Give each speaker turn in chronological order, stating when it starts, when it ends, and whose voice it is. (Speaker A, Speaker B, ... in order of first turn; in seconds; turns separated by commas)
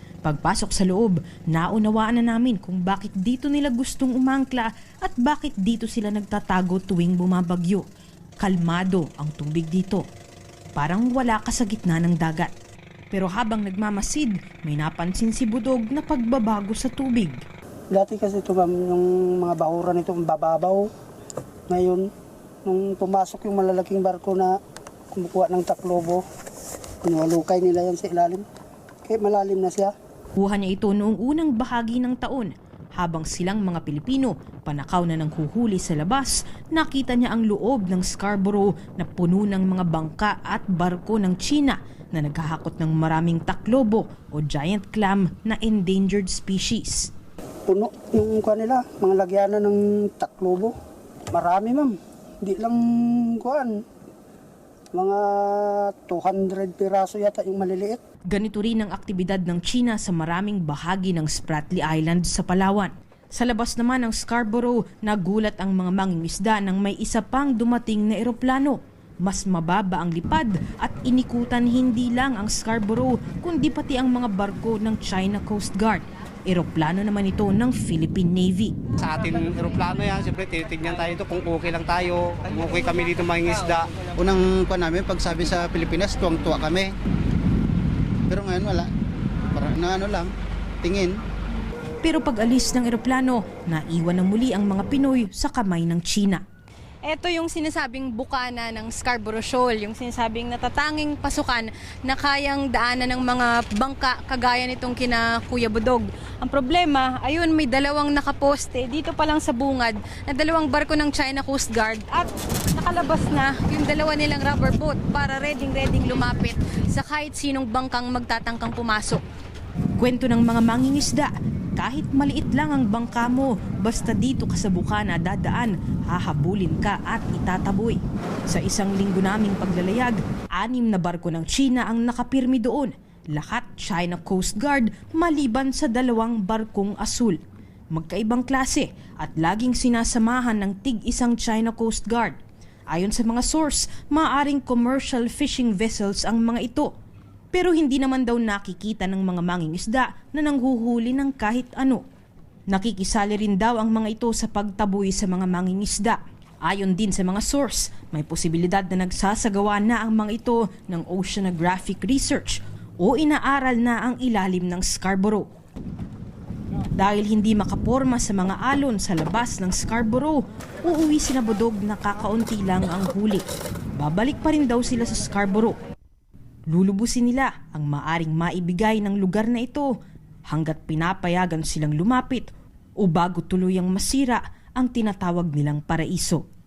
Speaker A: 0.2-7.8, Speaker A: 8.4-10.1, Speaker A: 10.8-12.5, Speaker A: 13.1-17.4, Speaker B: 17.9-20.9, Speaker B: 21.7-22.1, Speaker B: 22.6-24.5, Speaker B: 25.1-26.2, Speaker B: 27.0-28.4, Speaker B: 29.0-29.9, Speaker A: 30.4-47.1, Speaker B: 47.7-50.7, Speaker B: 51.3-53.8, Speaker B: 54.9-58.0, Speaker A: 58.3-78.8, Speaker C: 79.0-84.0, Speaker D: 79.8-80.3, Speaker D: 84.1-86.9, Speaker D: 88.3-88.9, Speaker D: 89.5-90.3, Speaker D: 90.8-91.1, Speaker A: 92.0-96.4, Speaker E: 97.1-119.2, Speaker A: 120.0-137.4, Speaker A: 137.9-142.4, Speaker A: 142.9-146.9, Speaker A: 147.5-152.0, Speaker A: 152.7-165.5, Speaker A: 166.9-173.4, Speaker A: 174.0-175.8, Speaker A: 176.7-179.9, Speaker A: 180.5-186.4